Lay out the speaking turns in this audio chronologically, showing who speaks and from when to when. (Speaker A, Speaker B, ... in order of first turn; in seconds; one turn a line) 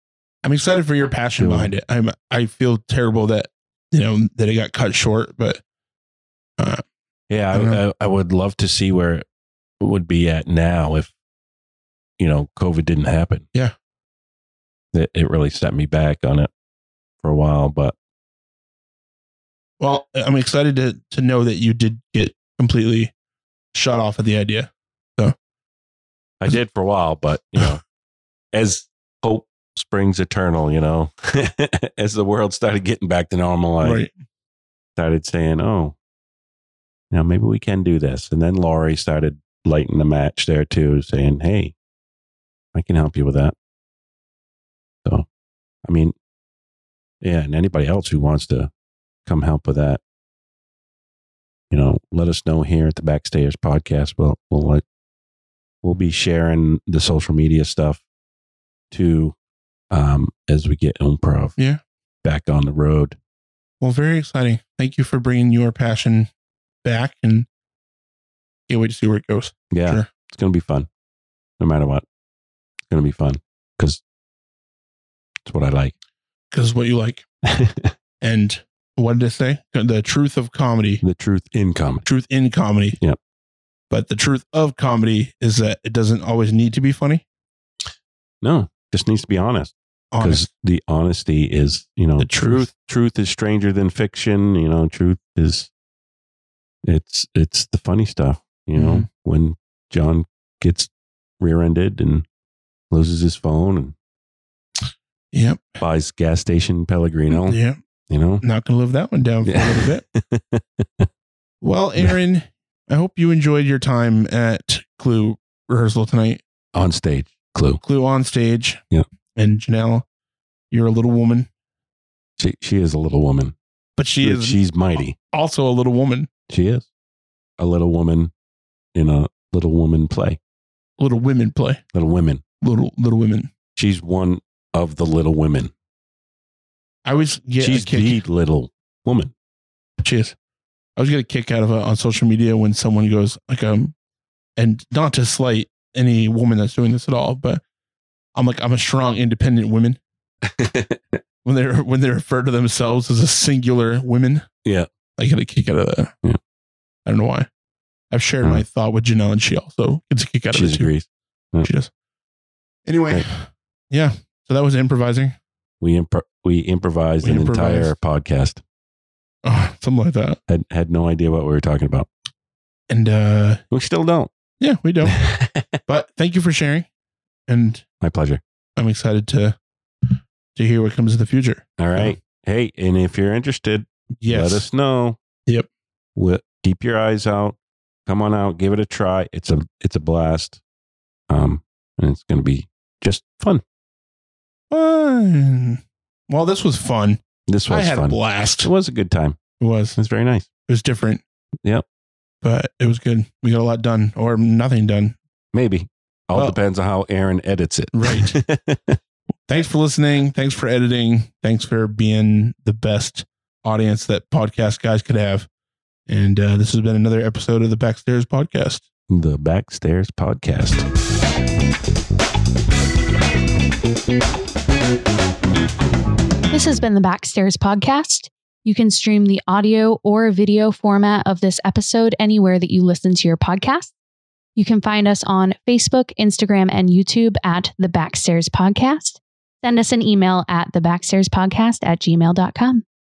Speaker A: 0.4-5.6
Speaker B: 1.4-1.7
Speaker A: 6.6-6.8
Speaker B: 7.3-9.2
Speaker A: 7.5-7.8
Speaker B: 9.8-11.1
Speaker B: 12.2-13.5
Speaker B: 14.9-16.5
Speaker B: 17.2-17.9
Speaker A: 19.8-23.1
Speaker A: 23.7-25.4
Speaker B: 26.4-27.8
Speaker B: 28.5-34.0
Speaker A: 33.8-34.1
Speaker B: 35.0-36.0
Speaker B: 37.1-41.8
Speaker B: 42.7-43.5
Speaker B: 45.9-46.1
Speaker B: 47.2-48.7
Speaker B: 49.3-50.0
Speaker B: 51.7-54.8
Speaker B: 55.8-58.0
Speaker B: 58.9-59.4
Speaker B: 59.9-61.5
Speaker B: 62.2-63.2
Speaker A: 63.8-66.3
Speaker A: 66.8-67.5
Speaker A: 68.7-70.1
Speaker B: 69.7-70.9
Speaker B: 71.6-72.0
Speaker B: 72.9-74.0
Speaker B: 75.5-75.9
Speaker A: 76.5-77.2
Speaker B: 77.5-77.9
Speaker A: 78.2-81.0
Speaker B: 81.0-82.0
Speaker A: 82.0-83.0
Speaker A: 83.9-87.2
Speaker B: 88.4-95.7
Speaker A: 90.1-90.5
Speaker A: 92.2-92.7
Speaker B: 96.9-102.3
Speaker A: 98.8-99.1
Speaker B: 102.9-104.0
Speaker A: 105.3-105.8
Speaker B: 105.8-108.4
Speaker A: 107.3-107.8
Speaker A: 108.4-110.0
Speaker B: 109.4-111.1
Speaker A: 111.6-116.4
Speaker B: 116.7-117.8
Speaker A: 117.8-118.8
Speaker A: 119.3-120.0
Speaker A: 120.7-121.5
Speaker B: 122.4-123.6
Speaker A: 124.0-126.3
Speaker B: 124.2-125.2
Speaker B: 126.5-126.9
Speaker B: 127.6-128.3
Speaker B: 128.9-130.4
Speaker A: 131.0-131.8
Speaker B: 131.9-132.4
Speaker A: 132.6-133.5
Speaker B: 133.8-135.7
Speaker A: 137.1-138.2
Speaker B: 137.6-139.3
Speaker A: 140.0-140.3
Speaker A: 141.0-143.9
Speaker A: 144.6-147.6
Speaker A: 148.3-150.0
Speaker B: 150.4-151.2
Speaker A: 151.4-154.4
Speaker A: 155.2-156.1
Speaker A: 157.1-157.5
Speaker A: 158.1-160.9
Speaker B: 160.5-161.7
Speaker A: 161.6-161.9
Speaker A: 162.9-165.4
Speaker B: 165.8-168.6
Speaker A: 167.2-167.9
Speaker A: 169.4-170.4
Speaker B: 170.5-172.1
Speaker A: 172.9-173.6
Speaker B: 173.7-174.3
Speaker A: 174.6-175.2
Speaker B: 175.1-175.8
Speaker A: 175.8-176.9
Speaker A: 177.5-177.8
Speaker B: 178.0-178.4
Speaker A: 178.8-182.2
Speaker B: 181.8-185.2
Speaker A: 184.2-184.7
Speaker B: 186.2-187.6
Speaker B: 188.1-190.6
Speaker B: 191.3-193.6
Speaker A: 194.7-198.7
Speaker B: 197.5-199.4
Speaker A: 199.6-200.0
Speaker B: 200.0-200.5
Speaker A: 200.7-201.2
Speaker A: 202.4-205.2
Speaker B: 205.5-209.0
Speaker A: 207.9-208.4
Speaker A: 209.5-215.5
Speaker A: 216.1-218.8
Speaker B: 219.1-220.8
Speaker C: 226.5-233.9
Speaker C: 234.6-242.8